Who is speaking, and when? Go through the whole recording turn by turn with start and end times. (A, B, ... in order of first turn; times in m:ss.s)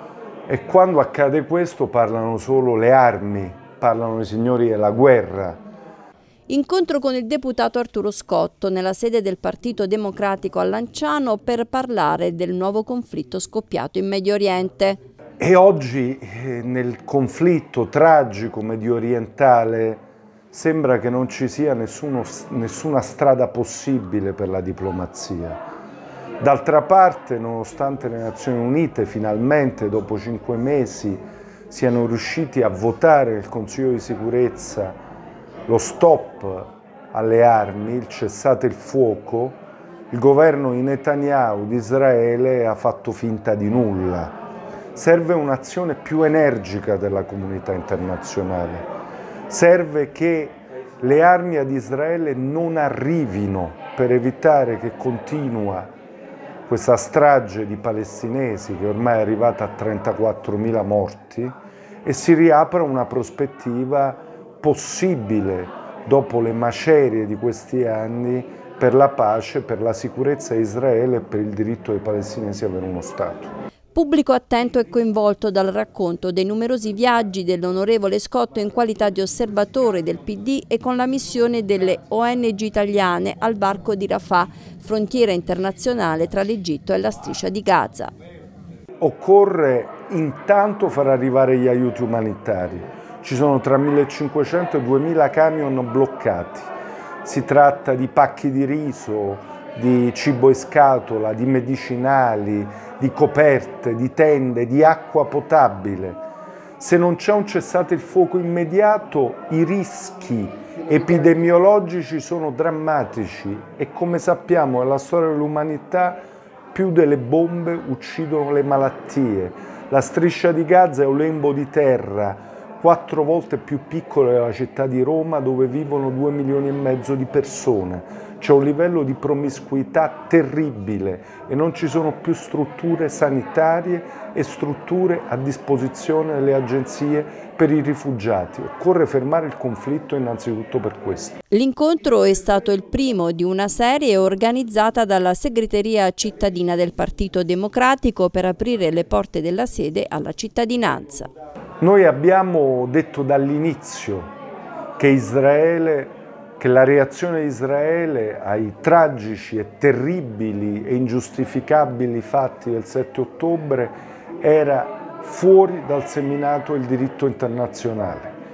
0:00.5-0:05.6 A
0:06.5-0:15.0 B
0:15.4-0:25.6 A
0:26.4-0:35.0 A
0:35.7-0:39.6 A
0:40.1-0:44.3 A
0:45.0-0:48.8 A
0:49.5-0:55.9 A
0:56.7-1:01.5 A
1:02.0-1:13.5 A
1:14.0-1:28.1 B
1:29.0-1:36.7 A
1:37.2-1:46.2 A
1:46.8-1:56.2 A
1:56.7-2:21.4 A
2:21.5-2:31.3 B
2:31.8-2:34.3 A
2:35.0-2:48.3 A